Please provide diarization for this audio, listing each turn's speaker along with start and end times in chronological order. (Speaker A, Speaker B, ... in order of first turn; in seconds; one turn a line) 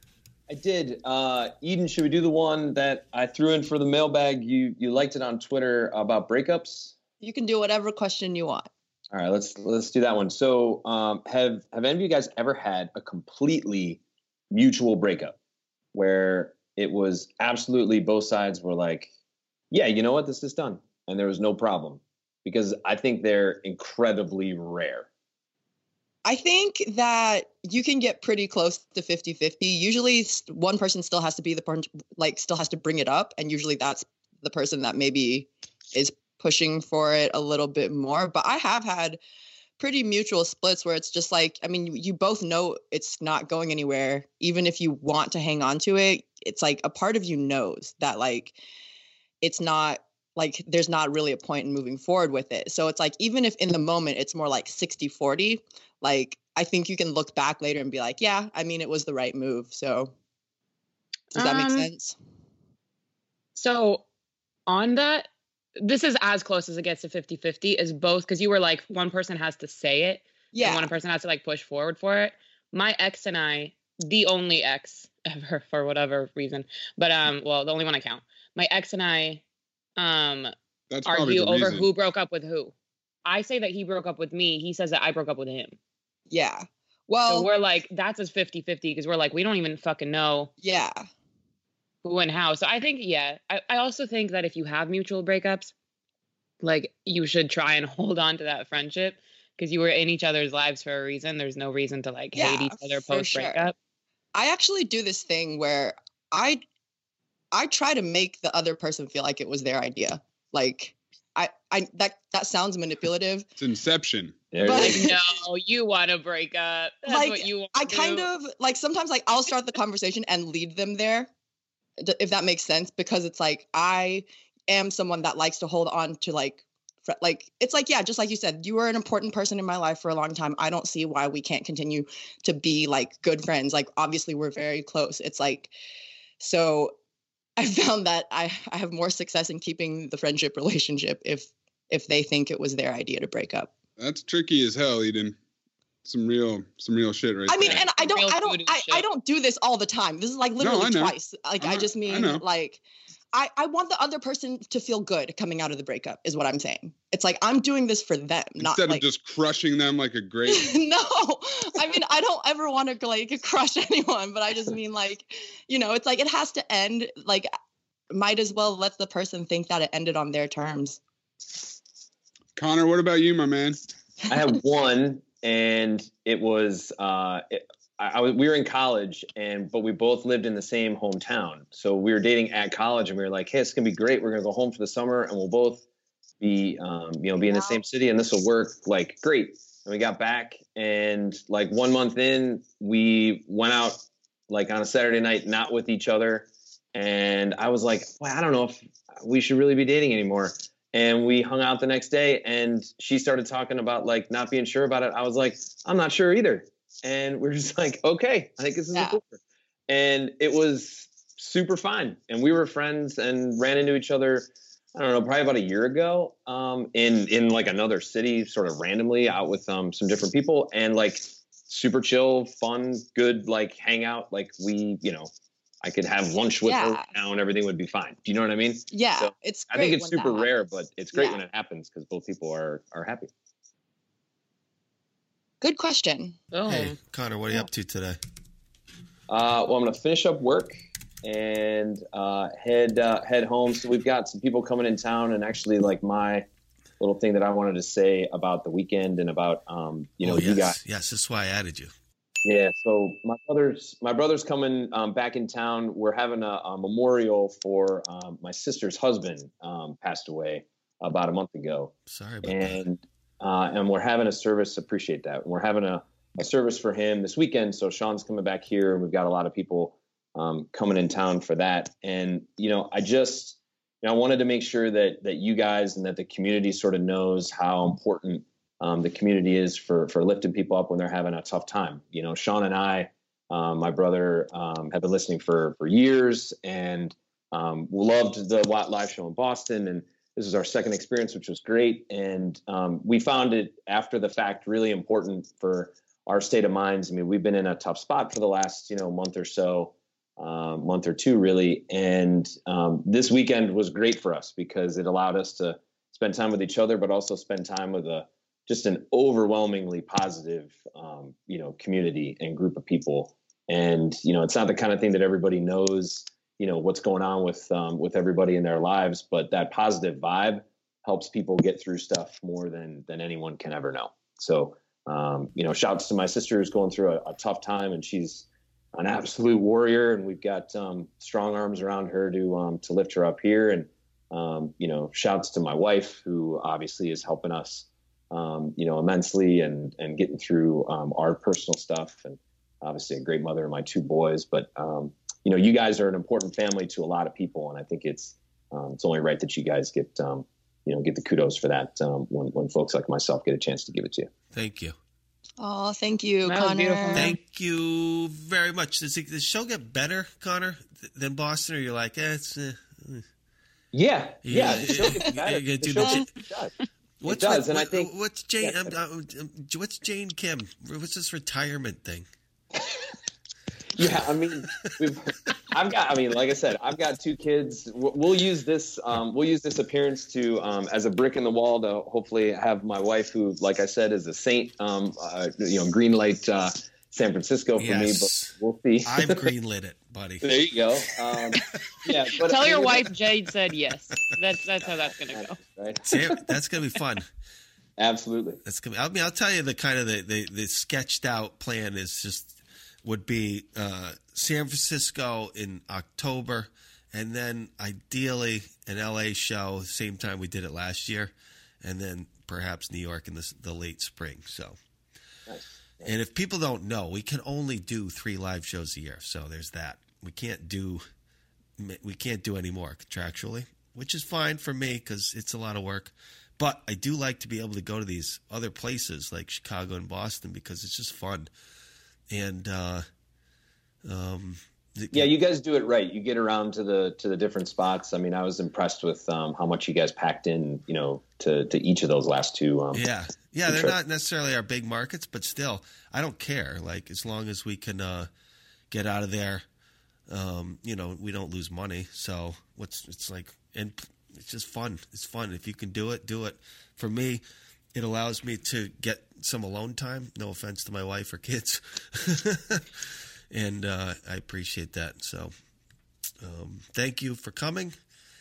Speaker A: 0.5-7.0
Speaker B: 7.2-8.7
Speaker A: 9.1-14.0
Speaker A: 14.5-15.3
Speaker A: 15.9-19.1
Speaker A: 19.7-25.1
Speaker B: 26.2-39.2
Speaker B: 39.8-48.6
Speaker B: 49.4-60.1
Speaker C: 61.3-61.9
Speaker B: 61.4-62.1
Speaker C: 63.5-64.0
Speaker C: 64.7-65.3
Speaker C: 65.8-79.4
Speaker B: 70.5-70.9
Speaker C: 80.0-80.5
Speaker D: 80.9-81.9
Speaker C: 81.1-82.7
Speaker C: 83.2-85.8
Speaker B: 86.3-87.5
Speaker C: 87.3-90.5
Speaker B: 90.6-91.0
Speaker C: 92.0-95.7
Speaker C: 96.6-103.7
Speaker B: 102.3-103.7
Speaker B: 104.3-106.6
Speaker B: 107.5-113.5
Speaker D: 113.6-114.4
Speaker A: 114.5-115.0
Speaker B: 114.6-115.2
Speaker C: 114.7-118.3
Speaker B: 117.1-121.3
Speaker B: 122.0-135.7
Speaker B: 136.4-137.0
Speaker B: 137.6-143.7
Speaker D: 144.0-145.4
Speaker D: 146.1-147.8
Speaker B: 147.5-159.0
Speaker C: 147.6-149.0
Speaker D: 150.6-152.4
Speaker D: 158.6-160.7
Speaker B: 160.5-167.5
Speaker B: 168.1-171.0
Speaker D: 172.6-173.8
Speaker A: 174.3-185.8
Speaker A: 186.4-225.3
Speaker B: 187.4-187.8
Speaker B: 208.9-209.2
Speaker A: 225.8-233.3
Speaker B: 226.6-227.1
Speaker B: 228.9-230.5
Speaker B: 231.1-231.4
Speaker B: 235.6-236.4
Speaker C: 236.5-237.0
Speaker E: 236.7-238.2
Speaker A: 239.3-246.4
Speaker A: 247.0-250.8
Speaker E: 250.2-251.9
Speaker A: 252.4-261.9
Speaker E: 262.1-262.8
Speaker A: 262.4-354.3
Speaker E: 354.5-355.0
Speaker B: 355.6-357.3
Speaker C: 356.4-357.4
Speaker E: 357.1-363.2
Speaker A: 363.9-366.7
Speaker E: 364.4-366.3
Speaker E: 367.2-372.3
Speaker A: 367.2-368.9
Speaker A: 374.0-389.5
Speaker E: 387.8-390.5
Speaker A: 390.4-393.1
Speaker C: 392.4-395.6
Speaker A: 394.8-396.4
Speaker E: 396.1-397.3
Speaker A: 398.0-398.6
Speaker E: 398.6-414.8
Speaker A: 415.5-416.2
Speaker E: 416.0-421.1
Speaker E: 421.8-431.5
Speaker E: 432.3-433.1
Speaker E: 434.1-435.3
Speaker A: 435.1-443.1
Speaker E: 442.9-448.3
Speaker A: 443.7-444.0
Speaker E: 448.9-449.6
Speaker E: 450.3-457.4
Speaker E: 457.9-465.5
Speaker E: 466.4-468.0